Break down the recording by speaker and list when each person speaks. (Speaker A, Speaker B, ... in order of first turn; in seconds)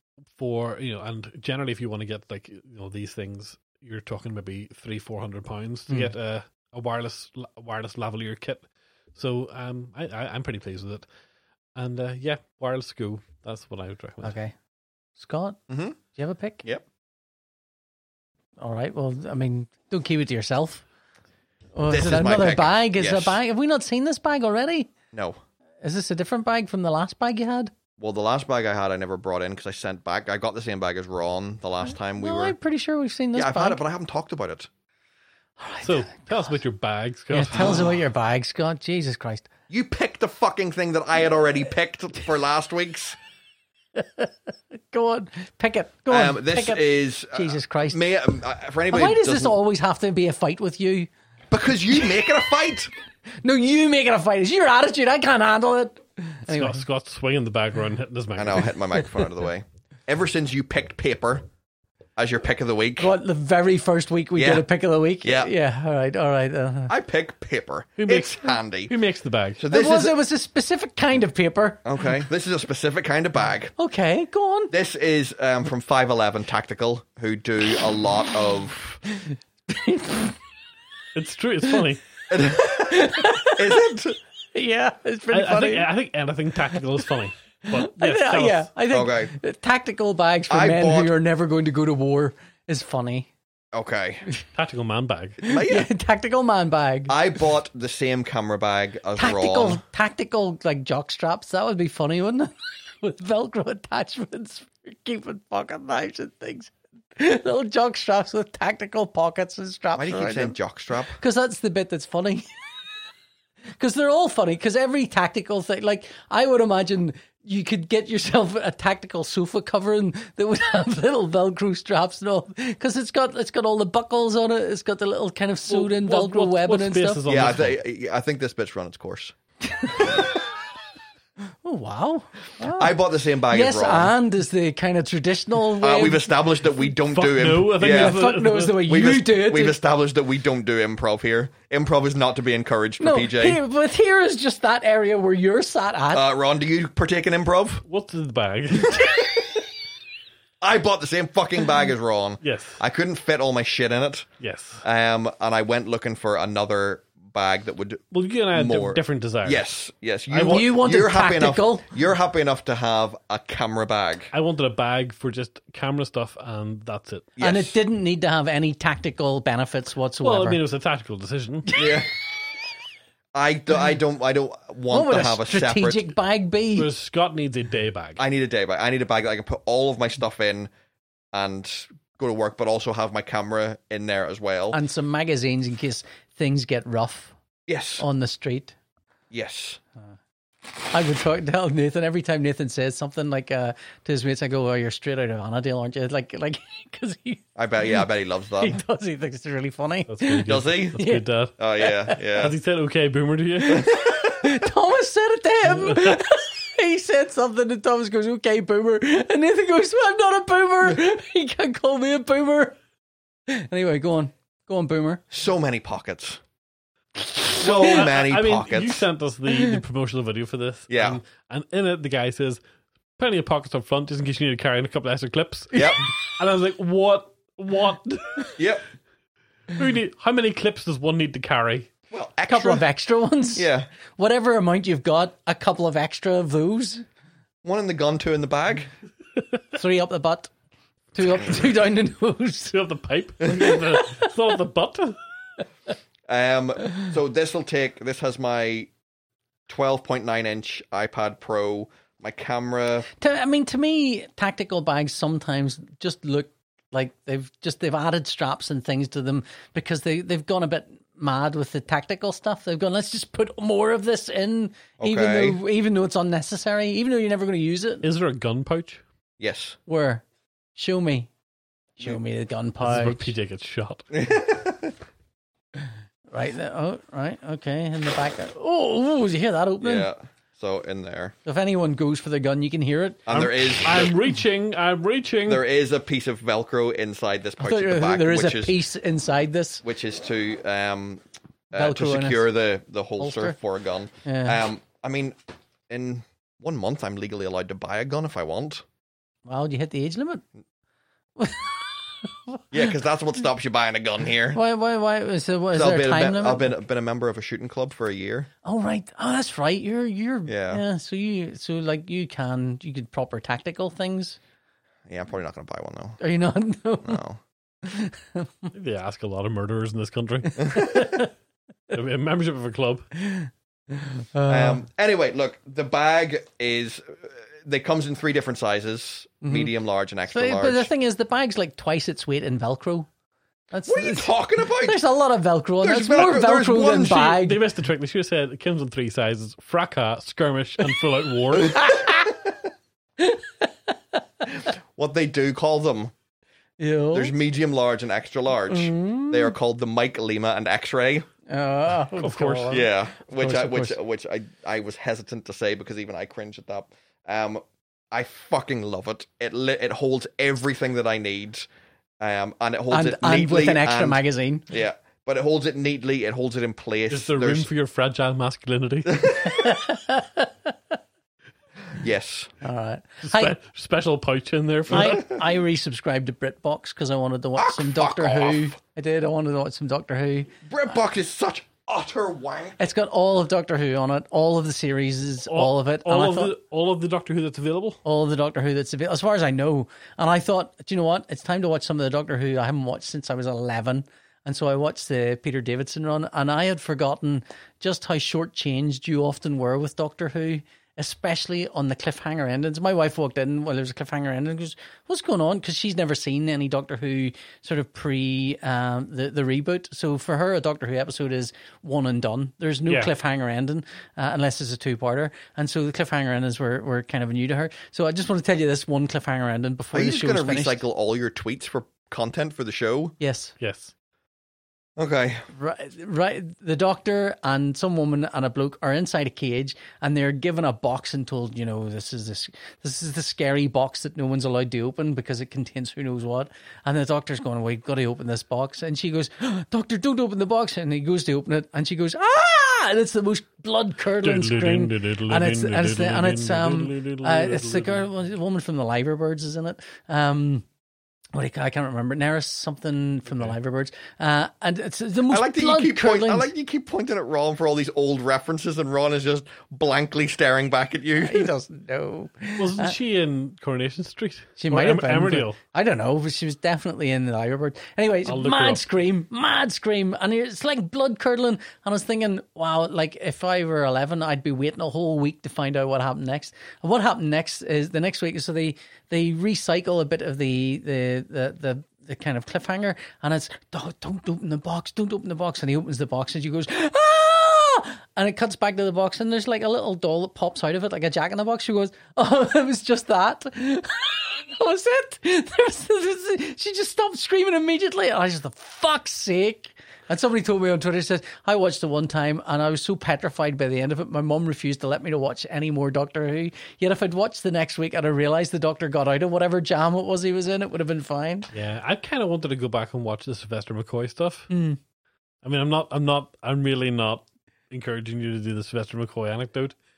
Speaker A: 0.4-11.1, 11.8-14.3, 35.8-37.8, 56.5-58.7, 68.0-69.6, 81.1-82.0, 85.3-88.7, 94.5-95.4, 125.7-127.8, 137.1-138.8, 147.8-149.3, 152.4-152.8, 154.4-154.8, 158.1-159.6, 164.3-167.3, 170.2-171.8, 176.8-178.2, 200.1-201.5, 202.2-203.9, 205.7-206.1, 217.6-222.6, 223.2-228.5, 229.7-231.9, 242.7-245.2, 268.0-269.0, 272.8-274.1, 283.3-285.6, 318.7-321.1, 321.9-323.1, 337.4-341.9, 352.1-352.8, 367.1-369.4, 373.2-375.4, 385.4-388.0, 412.9-413.1, 423.6-423.9, 444.2-448.1, 453.3-453.5, 462.6-465.6, 468.2-468.8, 511.5-514.5, 515.4-519.8
Speaker B: 14.2-14.5, 15.2-15.6, 16.1-16.6, 18.6-20.8, 21.7-24.9, 25.8-27.7, 32.1-33.8, 35.6-36.6, 37.3-39.5, 43.9-48.0, 48.9-51.1, 53.4-56.8, 63.0-66.9, 69.7-71.8, 73.8-74.7, 79.7-80.4, 82.4-83.9, 84.5-85.9, 87.7-93.3, 95.4-97.2, 99.2-110.5, 111.1-112.6, 113.8-127.2, 129.7-130.3, 131.6-136.3, 137.8-139.8, 143.0-146.2, 160.3-161.9, 167.4-170.6, 174.9-176.9, 184.7-187.3, 188.0-188.7, 190.9-197.4, 198.6-201.2, 203.7-212.8, 213.5-215.2, 219.5-219.8, 232.5-237.0, 239.7-240.5, 241.1-242.7, 243.5-244.3, 253.2-268.0, 269.9-270.2, 270.8-271.3, 272.0-273.3, 276.3-280.1, 281.4-283.2, 287.6-289.8, 291.8-292.5, 293.2-293.5, 294.2-294.6, 299.4-300.4, 301.4-302.8, 304.5-306.8, 308.6-314.4, 316.2-317.2, 317.8-318.7, 320.6-321.3, 323.2-324.8, 329.4-329.7, 330.3-333.1, 333.7-337.6, 341.6-342.3, 343.2-344.5, 346.8-347.3, 348.7-349.5, 351.5-353.9, 362.9-364.7, 369.4-370.5, 372.6-373.5, 374.9-380.5, 382.8-386.5, 388.0-420.8, 423.2-423.5, 425.5-450.6, 451.3-456.5, 461.2-462.9, 464.6-511.5, 514.5-514.8
Speaker C: 15.7-16.0, 21.9-23.4, 25.1-25.4, 28.0-32.5, 33.3-34.7, 39.7-43.2, 46.1-49.6, 51.5-52.9, 58.4-61.4, 62.1-63.1, 64.3-64.7, 65.2-65.5, 66.9-68.9, 69.6-70.2, 71.8-73.7, 74.7-79.0, 82.3-84.2, 88.9-89.3, 90.5-91.1, 93.7-94.2, 95.4-95.9, 97.1-99.8, 110.0-111.2, 127.2-129.3, 130.0-130.2, 132.6-134.1, 135.8-138.2, 138.8-143.6, 146.1-147.8, 148.9-149.2, 150.6-154.3, 154.8-158.0, 158.5-164.3, 167.4-167.7, 171.7-172.1, 173.3-176.1, 178.2-180.7, 181.3-184.8, 187.7-188.1, 189.3-189.8, 197.6-198.8, 200.5-201.0, 201.6-202.5, 203.9-204.5, 215.3-216.4, 217.5-219.1, 220.9-221.2, 225.7-226.0, 228.6-228.8, 232.1-232.8, 233.5-233.9, 237.6-238.9, 246.3-248.9, 249.7-253.1, 265.0-265.6, 269.4-269.8, 274.1-274.9, 279.8-281.3, 283.3-284.2, 285.5-288.8, 289.8-295.4, 295.9-298.8, 302.7-304.6, 305.7-308.5, 310.5-310.8, 315.1-316.2, 317.0-317.4, 320.6-321.2, 324.5-330.9, 333.9-335.0, 335.8-337.4, 344.9-346.1, 347.1-351.3, 352.7-361.7, 362.2-367.7, 369.1-369.7, 371.9-372.5, 374.9-375.2, 377.6-378.8, 380.6-382.8, 419.9-423.1, 425.0-425.4, 455.3-461.5